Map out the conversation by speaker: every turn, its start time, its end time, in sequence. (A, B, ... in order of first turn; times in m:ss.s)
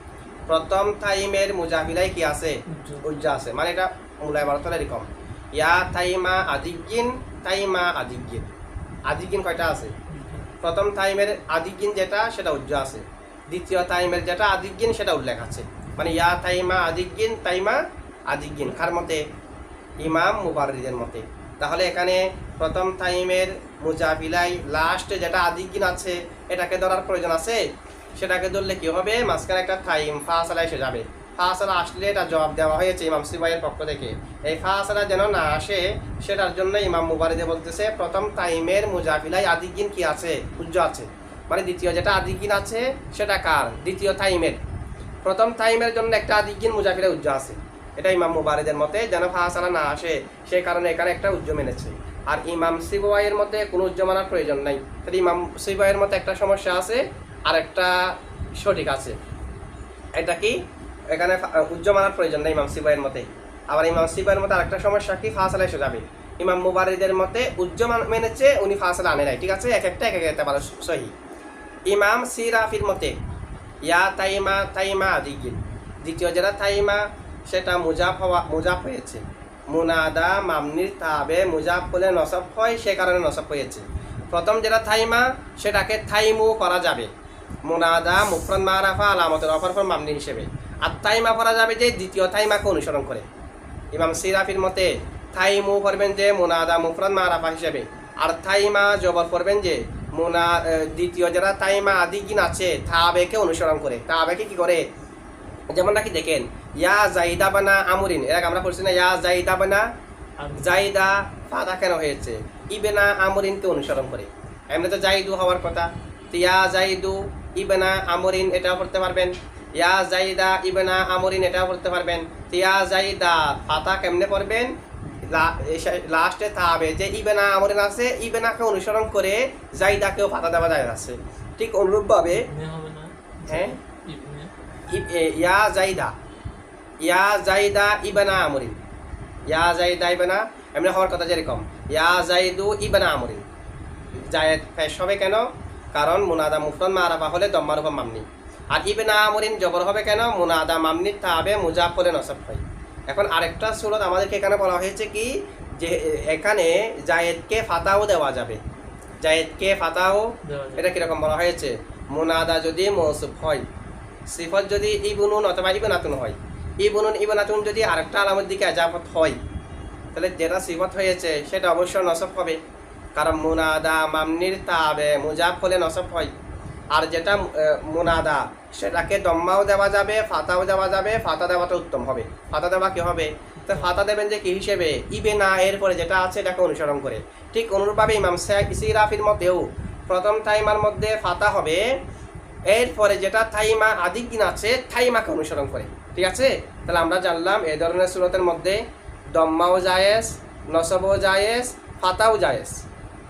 0:00.5-0:08.5 A
0:02.7-0:03.3 B
0:09.1-0:09.9 A
0:10.1-0:10.5 B
0:10.6-0:19.2 A
0:20.0-0:27.6 A
0:20.1-0:20.5 B
0:28.2-0:44.6 A
0:45.2-0:59.2 A
1:00.2-1:11.1 A
1:11.9-1:13.1 A
1:13.8-1:27.1 A
1:27.6-1:33.2 A
1:33.9-1:44.8 A
1:45.7-1:49.8 A
1:50.4-1:50.9 B
1:50.6-2:04.7 A
2:05.2-2:12.4 A
2:12.3-2:14.5 B
2:13.5-2:13.8 A
2:14.9-2:16.1 A
2:17.0-2:18.8 A
2:19.5-2:23.4 A
2:24.2-2:38.6 A
2:39.2-2:43.6 A
2:40.4-2:41.0 B
2:44.3-2:49.4 A
2:50.1-2:52.6 A
2:53.1-2:56.3 A
2:56.9-3:11.8 A
3:03.6-3:03.9 B
3:12.7-3:18.8 A
3:19.3-3:22.8 A